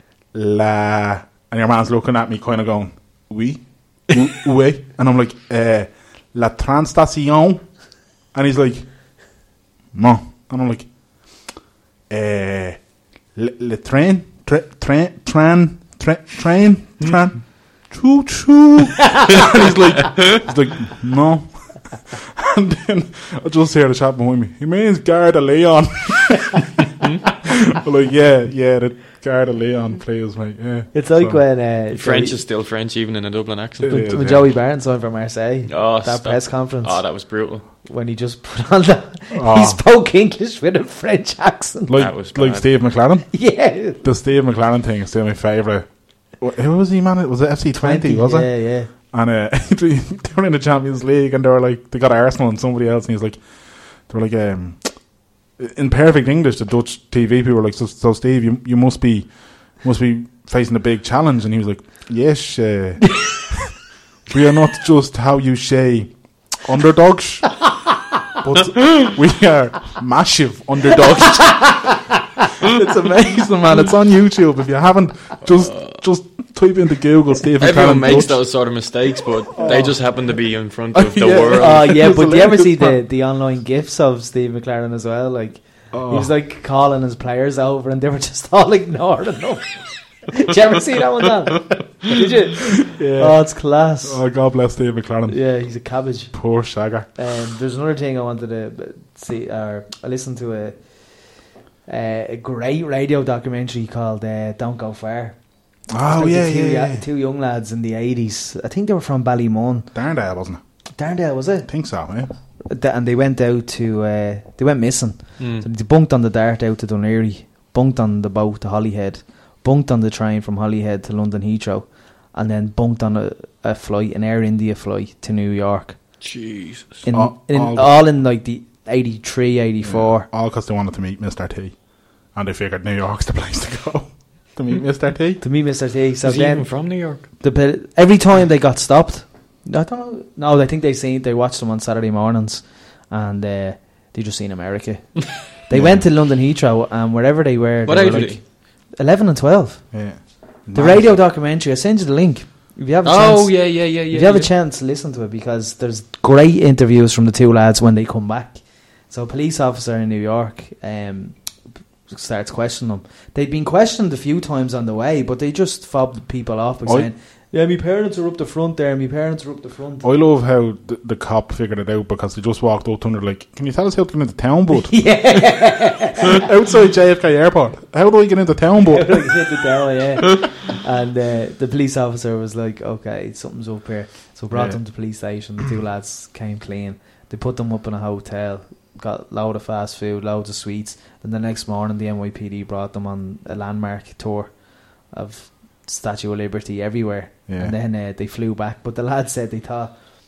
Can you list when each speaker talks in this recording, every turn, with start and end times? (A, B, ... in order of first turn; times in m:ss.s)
0:00.3-0:07.7 A
0:08.3-0:08.9 A
0:09.9-0:10.9 A
0:12.1-0:12.8 A
0:13.4-0:26.7 A
0:27.4-0:31.4 A
0:30.9-0:32.4 B
0:31.9-0:34.0 C
0:33.8-0:34.5 A
0:33.9-0:37.0 B
0:35.7-0:37.7 C
0:37.8-0:42.0 B
0:39.3-0:39.8 A
0:41.9-0:43.3 A
0:41.9-0:42.7 C
0:43.3-0:44.0 B
0:44.0-0:45.9 A
0:46.4-0:48.5 A
0:47.8-0:48.9 B
0:49.1-0:53.4 A
0:54.1-0:54.9 A
0:55.6-1:03.6 A
1:04.3-1:07.6 A
1:08.4-1:11.8 A
1:11.4-1:12.5 B
1:12.6-1:18.4 A
1:15.5-1:16.0 C
1:17.6-1:22.0 C
1:19.6-1:20.0 A
1:19.6-1:19.9 B
1:20.9-1:23.0 A
1:21.5-1:34.2 B
1:25.9-1:26.3 A
1:32.9-1:33.4 A
1:34.0-1:35.4 A
1:35.3-1:36.4 B
1:36.3-1:37.1 A
1:37.2-1:40.8 B
1:41.9-1:45.4 B
1:45.9-1:47.0 A
1:46.1-1:49.9 B
1:49.9-1:50.6 A
1:51.0-1:51.7 B
1:51.7-1:52.3 A
1:52.7-2:06.0 B
1:55.4-1:55.7 C
2:06.2-2:07.0 C
2:07.0-2:10.3 B
2:07.1-2:08.0 A
2:09.8-2:11.8 A
2:12.3-2:15.4 A
2:15.4-2:29.9 B
2:16.2-2:17.3 C
2:25.7-2:26.1 A
2:27.9-2:28.4 C
2:29.9-2:31.2 A
2:30.7-2:41.4 B
2:33.0-2:34.5 C
2:42.1-2:50.1 B
2:50.0-2:55.1 A
2:54.7-2:56.5 B
2:56.2-2:59.4 A
2:58.8-3:14.5 B
3:04.5-3:04.8 A
3:15.1-3:19.9 B
3:17.5-3:17.7 A